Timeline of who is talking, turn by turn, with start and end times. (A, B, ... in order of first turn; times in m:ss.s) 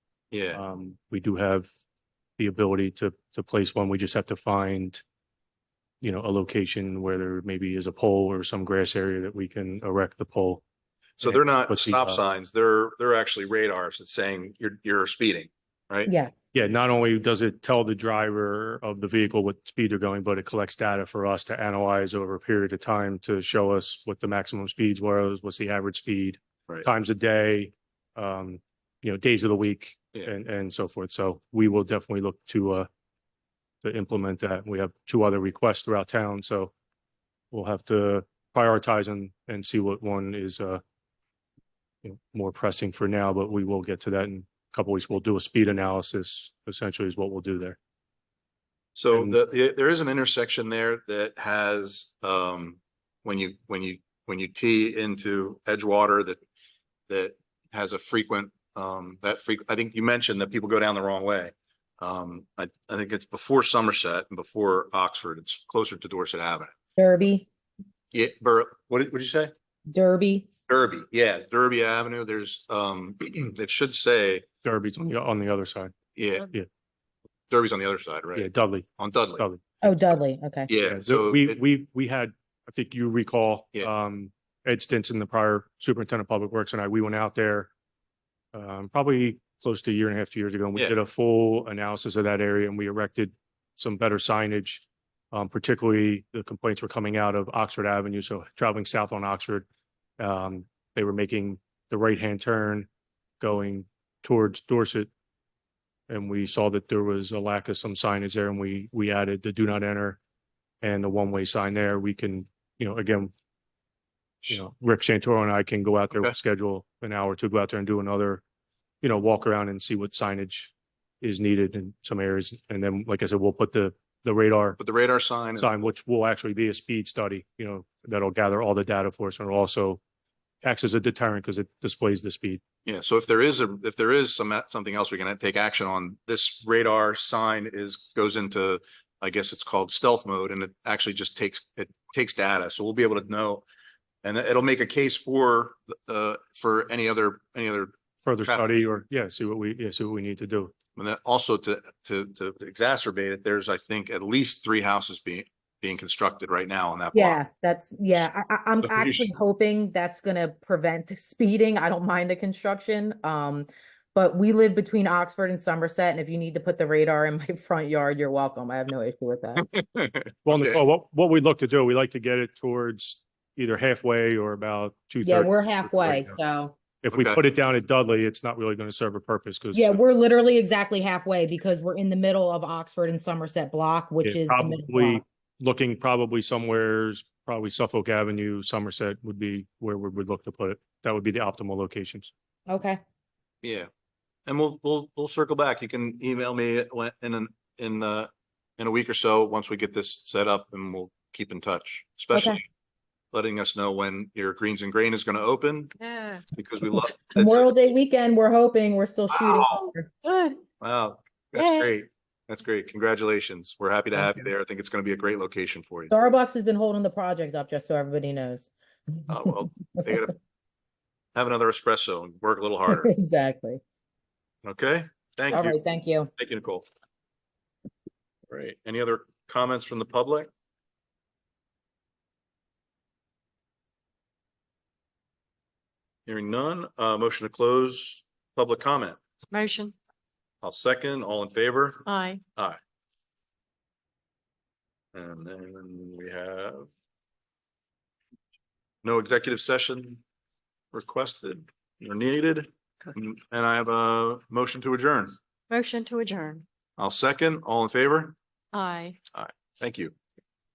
0:00.3-0:00.6 A
0:00.5-0:01.7 B
0:02.4-0:05.0 B
0:06.0-0:10.6 B
0:11.2-0:16.1 A
0:11.2-0:12.2 B
0:16.0-0:16.4 C
0:16.5-0:32.9 B
0:33.8-0:36.7 B
0:37.5-0:40.8 B
0:42.0-0:47.8 B
0:49.0-0:56.4 A
0:49.1-0:49.4 B
0:57.1-1:06.7 A
1:07.0-1:07.5 C
1:08.1-1:09.5 A
1:09.9-1:10.5 C
1:10.7-1:14.4 A
1:14.6-1:15.9 B
1:16.2-1:16.5 A
1:17.5-1:18.5 A
1:18.3-1:19.6 B
1:19.0-1:19.4 A
1:19.8-1:20.7 C
1:20.7-1:21.6 A
1:20.8-1:27.7 B
1:28.5-1:39.6 B
1:40.2-1:42.9 B
1:43.4-1:45.1 B
1:46.1-1:50.2 B
1:50.8-1:53.3 B
1:54.5-1:58.4 B
1:59.0-2:04.8 B
2:04.8-2:05.7 A
2:05.5-2:10.0 B
2:10.6-2:12.6 B
2:12.8-2:23.6 A
2:24.2-2:27.9 A
2:28.2-2:30.7 B
2:31.0-2:37.4 A
2:37.1-2:49.6 C
2:38.8-2:39.2 A
2:49.6-2:50.8 A
2:50.4-2:56.3 B
2:55.2-2:56.8 C
2:57.0-3:00.0 B
2:57.1-2:57.4 A
2:59.7-3:05.2 C
3:04.2-3:12.3 B
3:12.7-3:13.0 C
3:13.6-3:13.9 A
3:14.5-3:22.6 A
3:22.3-3:22.6 C
3:23.3-3:25.9 A
3:26.0-3:26.4 D
3:26.5-3:27.7 A
3:27.3-3:30.1 C
3:29.3-3:29.8 A
3:30.2-3:30.6 D
3:30.8-3:36.1 A
3:31.6-3:31.9 D
3:36.1-3:39.2 C
3:39.3-3:40.3 A
3:41.3-3:43.1 A
3:42.9-3:43.8 C
3:44.6-3:45.8 A
3:45.5-3:46.3 C
3:46.4-3:46.9 A
3:48.5-3:50.5 A
3:56.2-3:59.2 A
3:59.5-3:59.9 D
4:00.6-4:02.8 A
4:02.0-4:02.4 D
4:05.1-4:06.9 A
4:09.0-4:10.2 A
4:10.9-4:15.3 A
4:15.7-4:16.6 D
4:17.0-4:18.4 A
4:18.7-4:19.2 D
4:19.3-4:20.1 A